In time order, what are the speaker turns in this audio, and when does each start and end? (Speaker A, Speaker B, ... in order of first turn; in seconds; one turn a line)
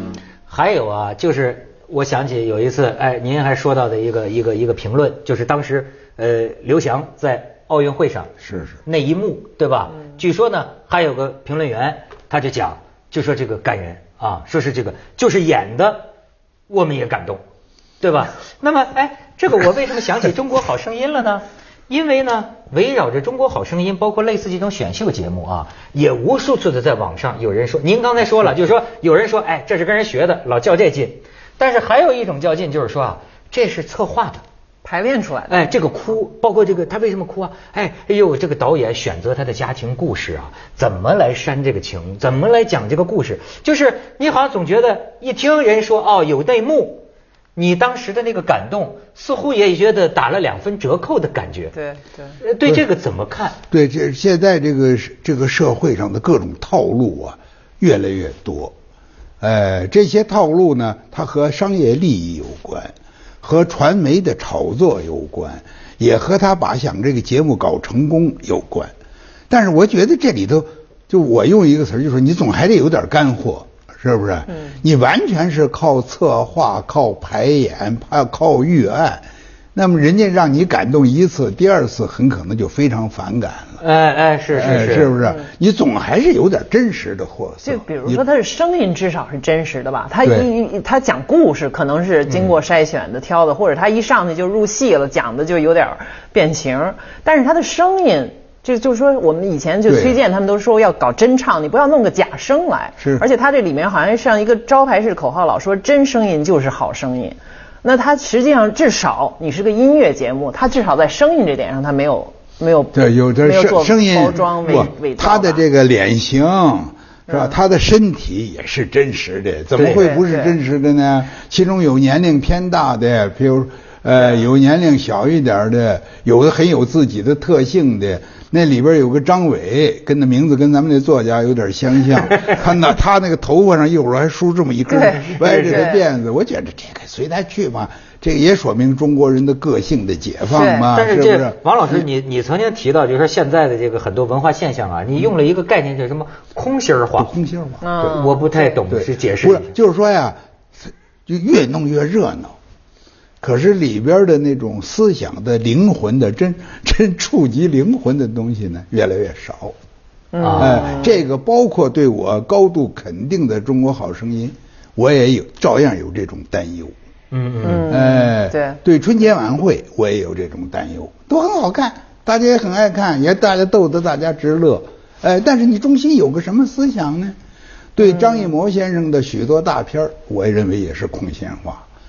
Speaker A: 0.5-8.3
Speaker B: 8.4-8.8
Speaker A: 8.8-16.1
Speaker A: 16.7-17.4
Speaker A: 18.0-34.4
Speaker C: 34.8-35.8
Speaker A: 35.5-51.7
Speaker C: 51.7-52.4
Speaker A: 52.4-53.6
Speaker B: 53.7-58.7
Speaker B: 59.4-68.9
Speaker B: 69.5-83.8
Speaker A: 83.8-85.1
Speaker B: 84.5-88.2
Speaker C: 85.2-85.5
Speaker C: 87.6-115.6
Speaker B: 99.9-100.2
Speaker B: 112.9-142.0
Speaker C: 117.3-117.6
Speaker A: 119.8-120.0
Speaker C: 119.9-120.5
Speaker C: 134.9-136.0
Speaker A: 135.2-135.8
Speaker C: 140.5-140.9
Speaker A: 140.9-147.3
Speaker B: 147.2-148.2
Speaker C: 147.8-148.8
Speaker A: 148.0-149.7
Speaker B: 148.9-152.5
Speaker B: 153.4-159.7
Speaker C: 160.3-161.1
Speaker A: 160.4-160.9
Speaker B: 160.6-166.9
Speaker A: 167.3-167.9
Speaker C: 167.6-168.8
Speaker B: 167.8-177.3
Speaker B: 177.9-181.8
Speaker C: 178.0-178.5